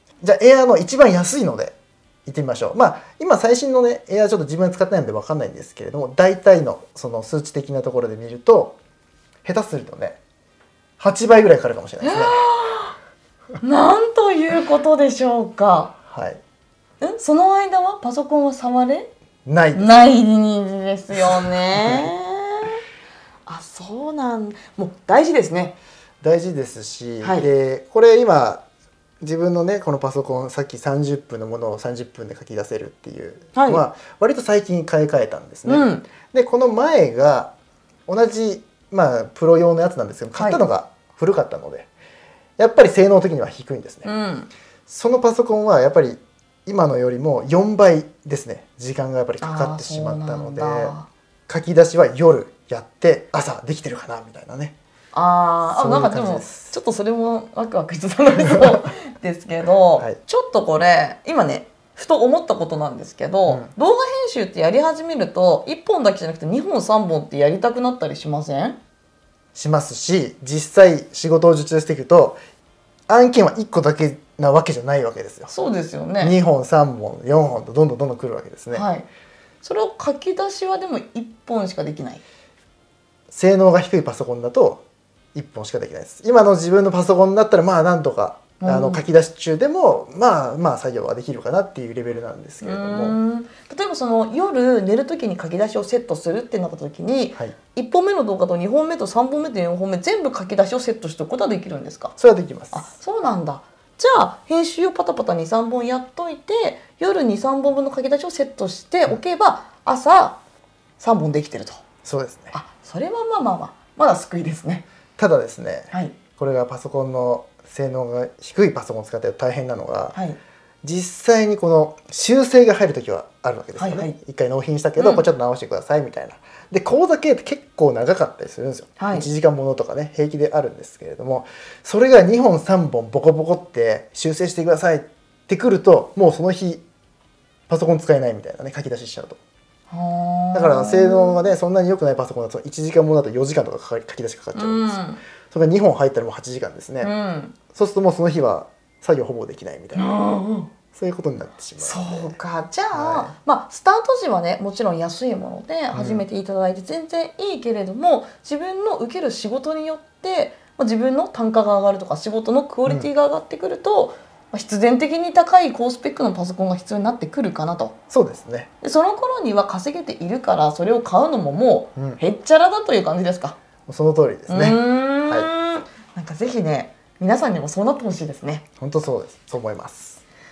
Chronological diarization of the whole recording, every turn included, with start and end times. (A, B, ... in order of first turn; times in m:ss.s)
0:00.2-0:01.7 A
0:02.2-0:08.8 A
0:09.4-0:10.2 A
0:11.0-0:12.5 A
0:12.0-0:12.9 B
0:13.6-0:15.9 B
0:16.1-0:16.4 A
0:17.0-0:19.1 B
0:19.4-0:19.9 A
0:19.7-0:22.8 B
0:21.7-0:22.1 A
0:23.4-0:25.8 B
0:26.2-0:28.6 A
0:27.2-0:27.4 B
0:29.2-0:37.5 A
0:33.5-0:33.8 B
0:35.6-0:36.1 B
0:38.1-0:41.9 A
0:40.3-0:40.6 B
0:42.6-0:44.1 A
0:44.0-0:44.5 B
0:44.9-0:50.9 A
0:49.4-0:51.1 B
0:51.5-0:54.8 A
0:55.1-1:08.8 B
0:55.7-0:56.7 A
1:09.5-1:12.4 A
1:13.1-1:15.5 A
1:15.5-1:16.3 B
1:16.2-1:18.8 A
1:18.7-1:19.1 B
1:19.6-1:22.2 B
1:23.3-1:24.8 A
1:25.3-1:33.2 A
1:28.6-1:29.0 B
1:32.6-1:42.1 B
1:42.2-1:42.9 A
1:42.7-1:50.4 B
1:51.0-1:51.8 B
1:52.0-1:52.5 A
1:52.5-1:54.8 B
1:55.2-2:00.2 A
2:00.1-2:00.4 B
2:00.8-2:16.8 A
2:03.8-2:04.1 B
2:05.0-2:05.2 B
2:09.0-2:09.3 B
2:17.7-2:19.4 A
2:19.9-2:21.4 B
2:20.5-2:27.1 A
2:24.5-2:25.2 B
2:27.0-2:27.5 B
2:27.7-2:30.1 A
2:29.9-2:30.7 B
2:30.9-2:32.4 A
2:31.8-2:47.9 B
2:32.9-2:33.3 A
2:35.9-2:36.2 A
2:48.1-2:48.7 A
2:48.8-2:53.6 B
2:53.9-2:55.5 A
2:54.5-2:58.6 B
2:58.8-3:00.2 A